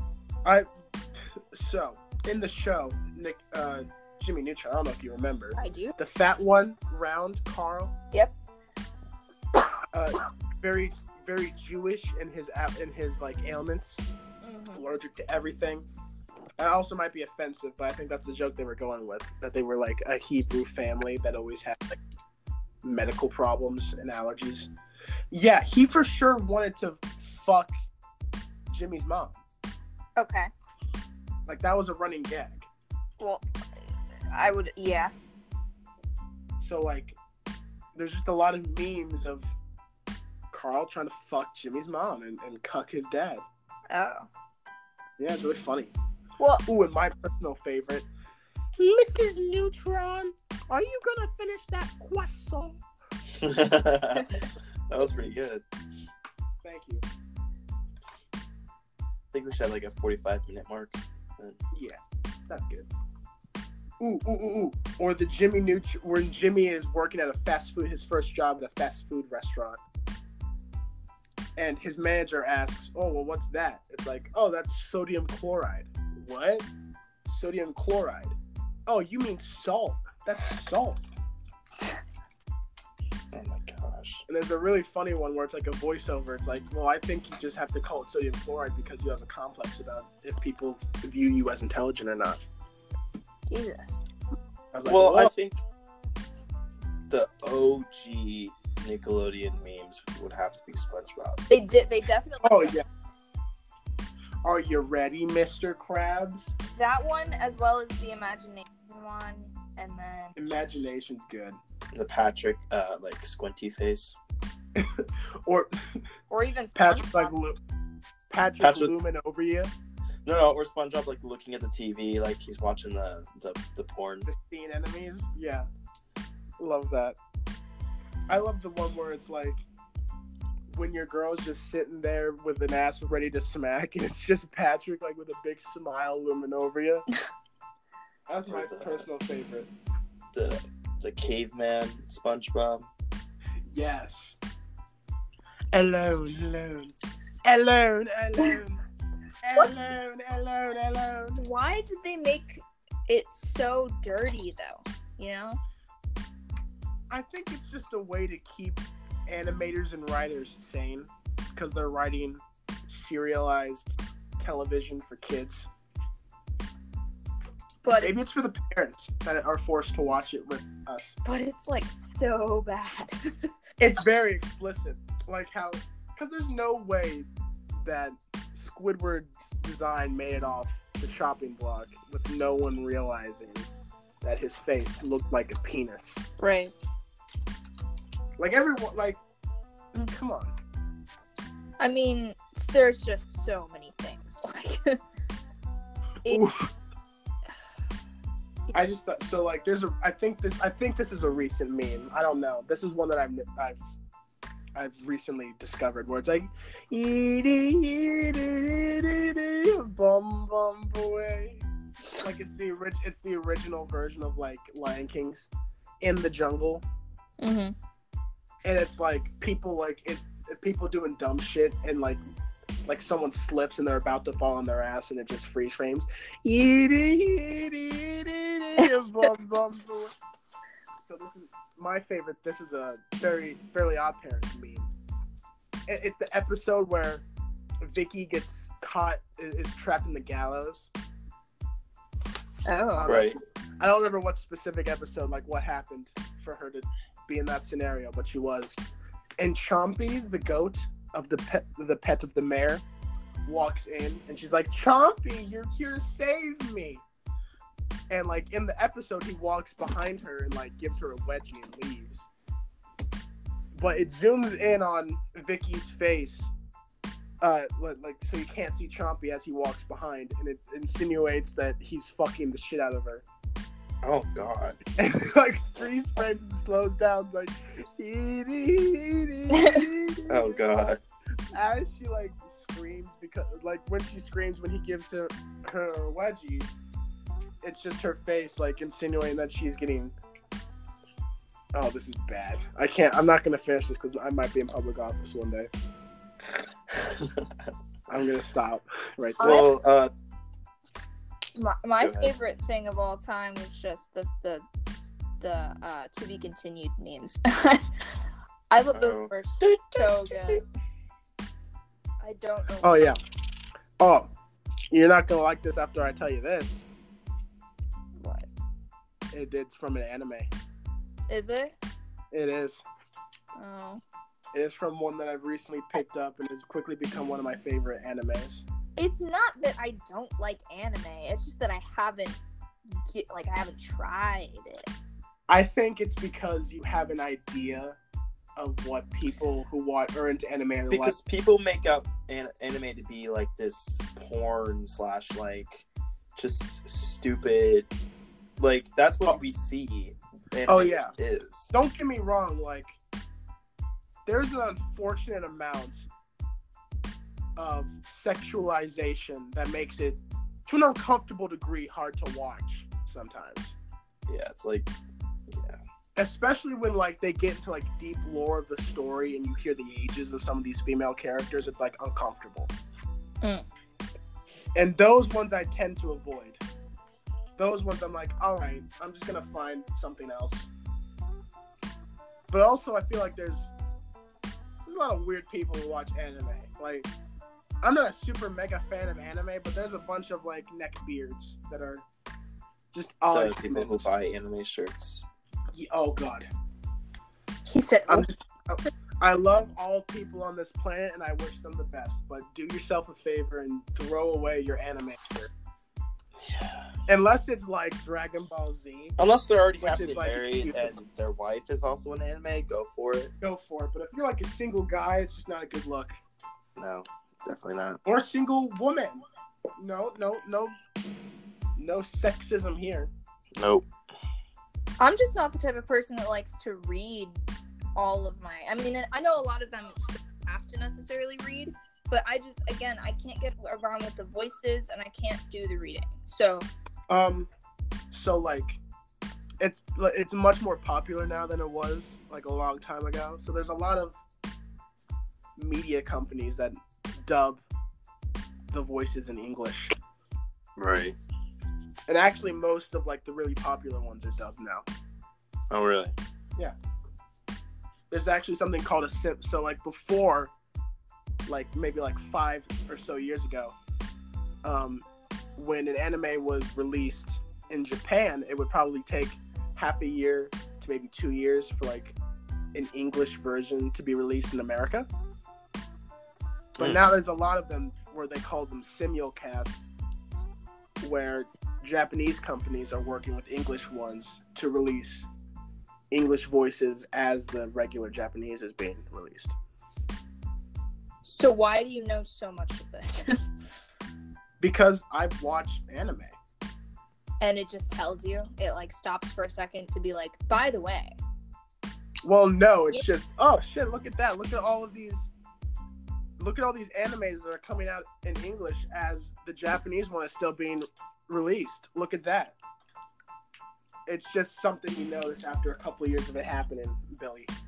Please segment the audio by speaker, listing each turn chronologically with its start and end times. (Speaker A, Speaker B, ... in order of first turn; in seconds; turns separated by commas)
Speaker A: 0.4-7.9, Speaker B: 5.6-5.9, Speaker A: 9.9-14.0, Speaker B: 14.4-14.8, Speaker A: 14.7-15.8, Speaker A: 16.6-22.0, Speaker A: 22.8-24.7, Speaker A: 25.3-27.7, Speaker A: 28.7-29.4, Speaker B: 30.2-30.5, Speaker A: 31.5-32.7, Speaker B: 34.3-35.1, Speaker A: 36.6-37.2, Speaker A: 37.9-39.5, Speaker A: 40.5-43.4, Speaker B: 43.9-44.3, Speaker A: 45.2-45.9, Speaker B: 46.4-46.6, Speaker A: 46.6-48.1, Speaker A: 48.8-52.8, Speaker C: 53.4-54.4, Speaker B: 54.2-54.4, Speaker C: 54.9-55.6, Speaker A: 56.6-57.0, Speaker C: 59.3-61.6, Speaker A: 61.7-62.9, Speaker A: 64.0-69.8, Speaker A: 71.6-76.7, Speaker A: 77.3-78.3, Speaker A: 78.9-81.0, Speaker C: 83.3-84.2, Speaker A: 84.3-92.4, Speaker B: 93.5-94.0, Speaker A: 94.7-95.3, Speaker C: 94.8-95.6, Speaker C: 97.1-101.4, Speaker B: 101.5-102.8, Speaker A: 102.4-102.8, Speaker A: 104.4-106.5, Speaker B: 106.7-110.3, Speaker A: 110.3-111.6, Speaker C: 111.9-114.2, Speaker A: 114.8-115.7, Speaker B: 116.3-117.3, Speaker A: 116.8-117.6, Speaker A: 118.3-119.7, Speaker C: 118.6-118.9, Speaker C: 120.2-124.3, Speaker A: 124.3-125.7, Speaker A: 126.6-127.2, Speaker A: 128.3-129.6, Speaker A: 130.7-137.1, Speaker A: 138.3-139.7, Speaker C: 138.5-139.1, Speaker C: 140.3-142.9, Speaker A: 143.7-144.4, Speaker A: 145.7-148.8, Speaker A: 149.4-151.4, Speaker B: 151.3-155.6, Speaker A: 157.1-165.7, Speaker B: 167.8-168.1, Speaker A: 168.0-171.2, Speaker B: 171.2-173.5, Speaker A: 173.8-183.7, Speaker A: 184.2-186.2, Speaker B: 186.4-186.7, Speaker A: 188.4-189.2, Speaker A: 190.0-190.5, Speaker B: 191.8-195.0, Speaker A: 196.3-196.7, Speaker A: 198.7-203.8, Speaker A: 204.7-211.7, Speaker A: 212.2-216.8, Speaker B: 217.4-217.7, Speaker A: 218.6-222.2, Speaker A: 222.8-230.1, Speaker A: 231.0-234.9, Speaker A: 235.9-237.2, Speaker A: 237.8-240.9, Speaker B: 242.7-243.1, Speaker A: 242.9-248.8, Speaker C: 243.0-243.3, Speaker A: 249.4-252.8, Speaker A: 253.4-257.0, Speaker A: 258.1-262.3, Speaker A: 263.7-266.5, Speaker A: 267.4-273.2, Speaker C: 274.0-274.8, Speaker A: 275.0-280.6, Speaker B: 279.6-279.8, Speaker C: 280.3-281.0, Speaker A: 281.5-286.7, Speaker A: 287.6-290.1, Speaker A: 291.7-295.7, Speaker C: 296.9-297.5, Speaker A: 298.1-299.6, Speaker B: 299.4-299.7, Speaker C: 299.4-300.1, Speaker B: 301.6-307.9, Speaker C: 302.0-302.3, Speaker B: 308.7-310.6, Speaker C: 308.9-309.4, Speaker B: 312.2-313.1, Speaker A: 312.8-313.2, Speaker A: 314.0-314.3, Speaker A: 314.9-316.9, Speaker B: 318.2-318.5, Speaker A: 319.3-320.5, Speaker B: 321.3-321.8, Speaker A: 322.3-322.8, Speaker B: 323.6-324.0, Speaker A: 324.5-328.6, Speaker B: 329.0-332.4, Speaker B: 332.9-334.9, Speaker A: 335.5-338.0, Speaker A: 338.6-341.1, Speaker C: 340.9-347.9, Speaker C: 348.6-351.7, Speaker A: 350.7-351.1, Speaker A: 351.7-353.0, Speaker A: 354.2-356.1, Speaker A: 357.6-363.8, Speaker C: 364.3-364.9, Speaker C: 365.5-365.8, Speaker A: 366.1-372.7, Speaker A: 374.7-376.6, Speaker A: 377.6-380.7, Speaker A: 382.5-383.7, Speaker A: 384.9-387.1, Speaker A: 387.8-392.0, Speaker A: 392.9-394.1, Speaker C: 393.3-395.3, Speaker A: 395.7-396.5, Speaker B: 397.7-398.3, Speaker A: 398.1-405.5, Speaker C: 406.4-406.9, Speaker A: 407.1-409.2, Speaker C: 409.2-413.3, Speaker A: 409.8-410.9, Speaker A: 413.4-416.1, Speaker C: 416.8-418.0, Speaker A: 418.0-419.2, Speaker A: 419.8-420.7, Speaker A: 421.8-423.1, Speaker C: 423.6-423.9, Speaker B: 425.0-427.4, Speaker B: 427.9-436.7, Speaker A: 437.1-437.5, Speaker A: 438.1-438.8, Speaker A: 439.6-444.2, Speaker A: 445.6-447.6, Speaker A: 448.7-449.9, Speaker C: 450.8-451.2, Speaker A: 452.1-454.9, Speaker C: 455.7-456.1, Speaker A: 458.1-460.5, Speaker A: 461.4-463.8, Speaker A: 464.6-465.0, Speaker A: 465.6-472.1, Speaker A: 472.7-475.1, Speaker C: 476.8-477.0, Speaker A: 476.8-479.9, Speaker A: 481.0-485.3, Speaker A: 486.1-489.5, Speaker B: 491.2-493.4, Speaker A: 494.6-496.4, Speaker B: 497.4-501.1, Speaker A: 502.2-505.3, Speaker A: 506.4-512.5, Speaker A: 514.1-517.5